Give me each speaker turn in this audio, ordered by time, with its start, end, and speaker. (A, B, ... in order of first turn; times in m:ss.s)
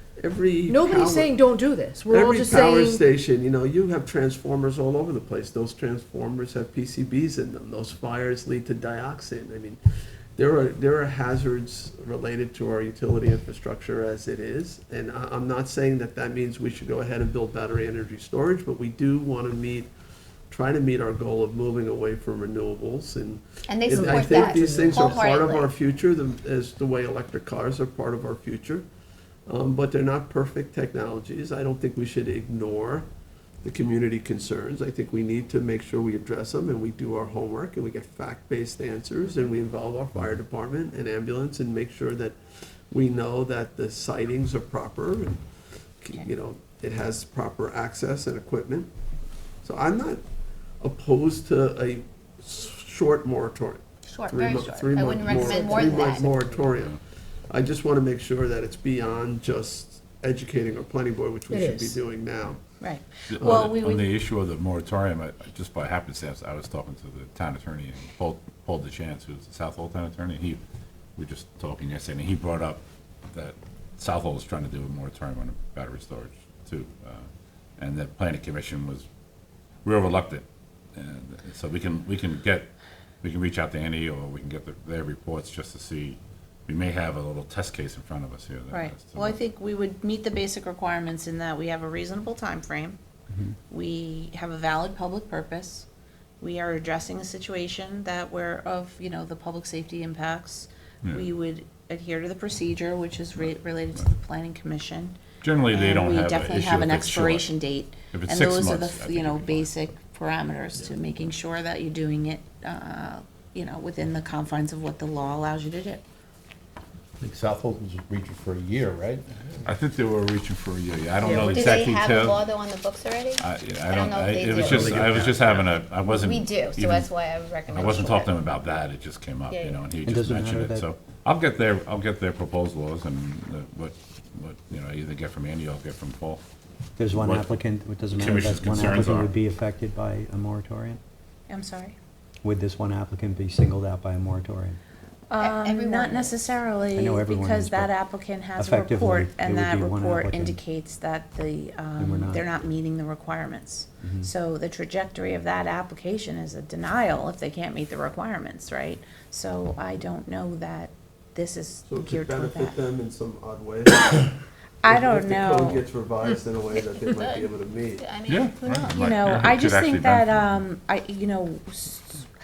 0:00.2-0:01.4 A
0:00.7-0:03.0 B
0:02.1-0:09.8 A
0:10.4-0:19.9 A
0:20.5-0:28.8 A
0:23.7-0:25.7 C
0:29.5-0:33.1 A
0:33.6-0:42.4 A
0:42.9-0:45.4 A
0:46.0-0:48.9 A
0:49.6-0:50.2 A
0:50.8-0:57.0 A
0:54.1-0:56.3 C
0:55.5-0:55.8 D
0:56.7-0:57.0 E
0:57.5-1:02.6 A
1:01.5-1:02.0 B
1:02.8-1:04.0 D
1:03.3-1:10.6 E
1:03.4-1:03.8 A
1:11.2-1:17.2 E
1:17.8-1:19.0 E
1:19.8-1:22.7 E
1:23.2-1:29.4 E
1:28.7-1:33.0 D
1:33.7-1:35.9 D
1:36.4-1:45.2 D
1:45.4-1:47.5 E
1:45.7-1:56.0 D
1:48.1-1:49.7 E
1:57.2-1:59.4 F
1:59.6-2:02.4 E
2:01.2-2:01.5 B
2:01.4-2:05.6 C
2:01.5-2:02.0 F
2:03.4-2:07.1 E
2:04.7-2:05.4 F
2:06.1-2:08.4 C
2:07.7-2:16.4 E
2:09.5-2:09.9 C
2:10.0-2:10.9 G
2:17.0-2:21.0 G
2:17.1-2:17.5 E
2:18.1-2:19.3 E
2:21.5-2:22.0 D
2:22.4-2:24.8 G
2:25.3-2:42.8 D
2:25.4-2:26.5 C
2:26.9-2:27.9 G
2:28.6-2:30.6 G
2:32.0-2:32.4 G
2:34.0-2:34.3 G
2:41.9-2:48.1 A
2:44.8-2:45.8 D
2:46.3-2:49.1 C
2:48.2-2:50.6 E
2:48.9-2:52.3 D